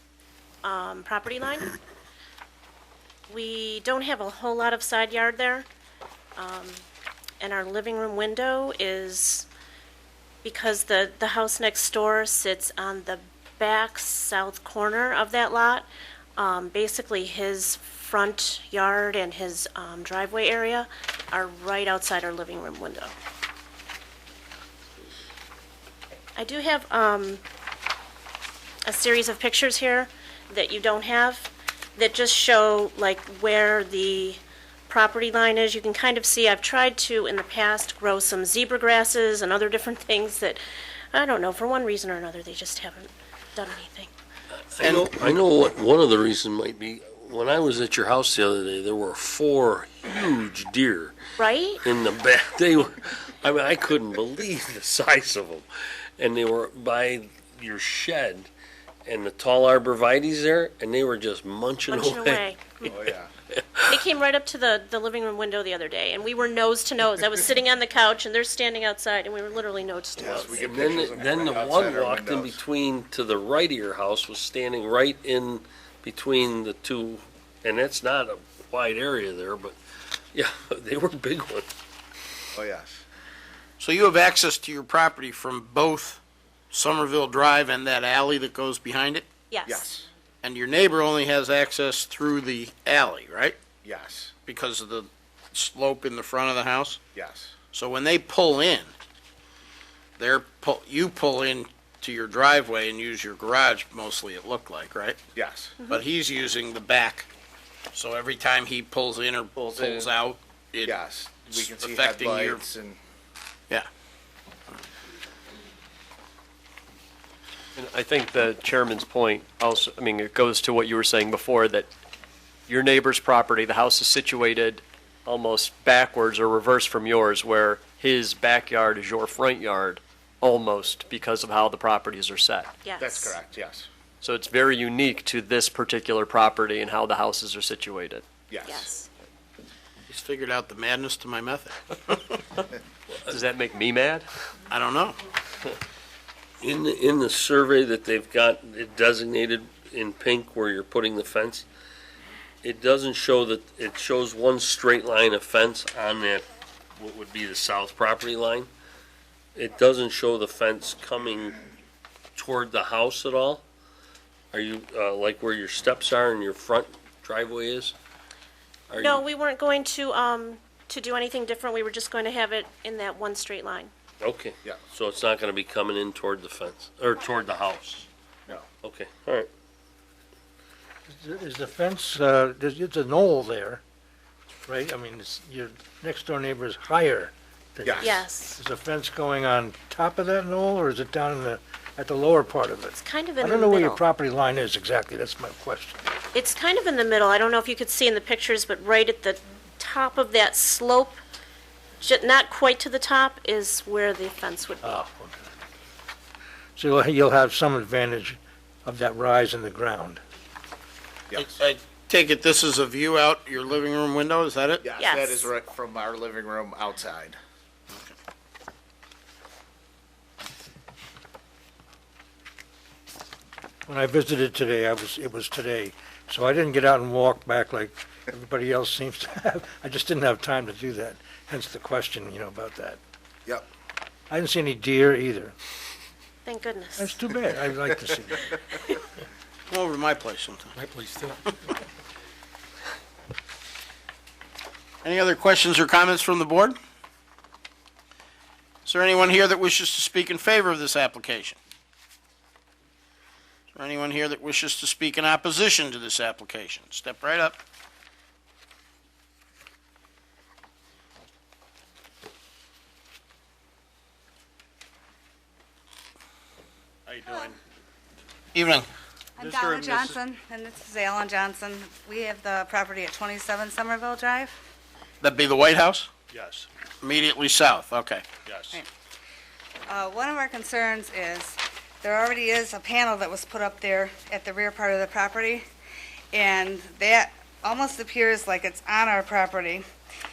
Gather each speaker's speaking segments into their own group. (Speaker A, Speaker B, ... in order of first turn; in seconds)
Speaker A: 0.6-1.7, 3.3-5.7, 6.3-6.8, 7.4-9.5, 10.4-15.9, 16.4-23.1, 26.4-27.4, 28.9-40.6, 41.1-44.1, 51.4-51.8, 61.9-63.0, 63.9-71.0, 89.5-89.9, 132.8-133.3, 138.6-139.1, 169.0-173.9, 188.0-188.6, 192.9-194.0, 196.3-201.2, 202.0-205.0, 215.0-215.5, 236.4-237.1
Speaker B: 44.7-51.2, 51.8-55.6, 56.2-58.5, 59.0-62.9, 63.5-64.0, 70.5-79.8, 80.3-81.7, 146.6-151.7, 152.6-156.4, 157.0-158.7, 159.5-161.6, 162.3-163.6, 164.5-167.9, 168.9-169.2, 174.2-178.1, 178.8-179.5
Speaker C: 44.8-45.3, 83.8-89.3, 90.4-93.6, 94.5-97.0, 97.7-98.9, 100.2-105.2, 105.8-107.3, 107.9-112.7, 140.1-142.4, 144.7-145.2, 211.3-214.9, 239.7-241.5, 245.0-246.8, 248.8-251.6, 253.7-257.6, 267.1-267.6, 268.5-268.9, 275.2-276.1, 277.0-278.3
Speaker D: 62.8-63.3, 70.2-72.6, 82.5-83.0, 89.7-90.1, 93.8-94.3, 97.2-97.5, 105.3-105.8, 109.6-110.1, 110.8-113.0, 133.0-133.9, 138.5-138.9, 187.8-188.2, 214.8-217.4
Speaker E: 117.8-121.9, 122.7-132.7, 134.2-138.2, 143.3-144.3
Speaker F: 181.1-183.8, 184.7-196.1, 204.8-205.5, 206.8-210.2, 223.9-233.0, 234.3-235.5, 237.0-238.6, 269.5-270.0
Speaker G: 267.2-267.5, 269.4-274.6, 279.9-285.7, 286.3-289.8